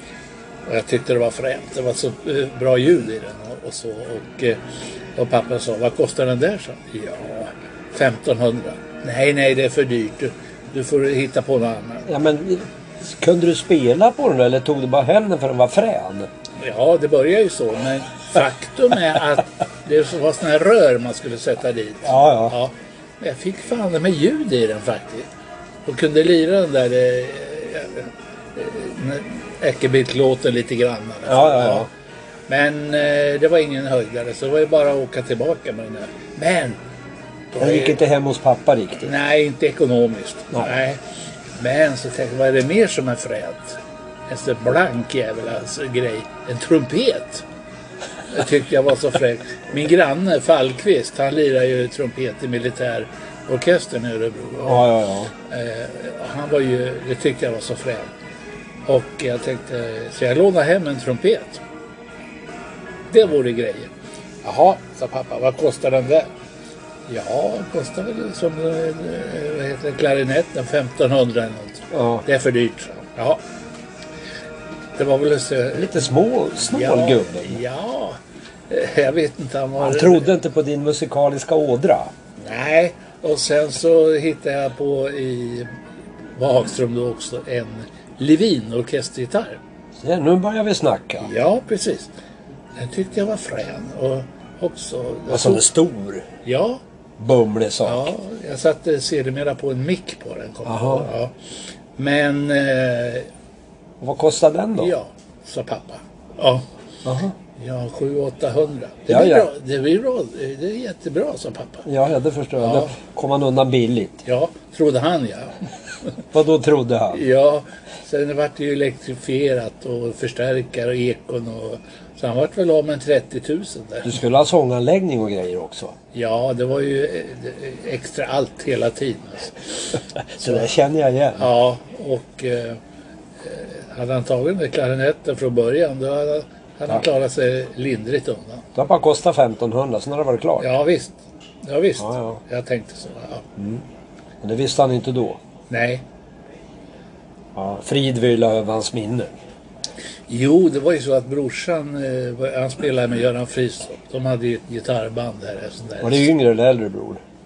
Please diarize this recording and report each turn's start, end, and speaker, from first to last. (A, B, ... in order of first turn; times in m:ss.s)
0:00.7-0:12.1 A
0:12.1-0:16.3 B
0:16.6-0:25.3 A
0:22.0-0:22.6 B
0:25.9-0:31.9 A
0:31.3-0:31.9 B
0:32.5-0:36.8 A
0:37.5-0:38.0 A
0:37.6-0:39.1 B
0:39.0-0:41.0 A
0:41.6-0:47.4 A
0:48.3-0:54.9 A
0:54.6-0:55.3 B
0:55.4-0:58.1 A
0:58.9-1:01.6 A
1:03.1-1:03.9 A
1:04.4-1:06.3 A
1:07.1-1:13.4 A
1:11.9-1:12.2 B
1:15.0-1:16.1 A
1:15.7-1:17.6 B
1:16.6-1:20.3 A
1:19.8-1:22.1 B
1:22.4-1:25.8 A
1:26.3-1:29.6 A
1:30.0-1:31.3 B
1:31.2-1:32.2 A
1:32.8-1:35.6 A
1:35.3-1:36.3 B
1:36.4-1:36.8 A
1:37.2-1:38.1 B
1:37.8-1:43.3 A
1:40.6-1:41.1 B
1:44.0-1:44.9 B
1:44.8-1:46.7 A
1:47.0-1:47.4 B
1:47.6-1:51.9 A
1:49.1-1:49.5 B
1:51.9-1:54.2 B
1:52.6-1:53.0 A
1:54.2-1:56.2 A
1:56.3-1:57.2 B
1:57.1-2:04.2 A
2:04.0-2:06.0 B
2:06.1-2:10.7 A
2:10.4-2:11.5 B
2:11.4-2:12.8 A
2:13.4-2:18.7 A
2:18.8-2:20.7 B
2:20.6-2:23.5 A
2:22.0-2:22.4 B
2:23.6-2:23.9 B
2:24.4-2:25.4 B
2:25.7-2:26.0 A
2:27.6-2:29.4 B
2:30.3-2:36.3 A
2:36.0-2:37.2 B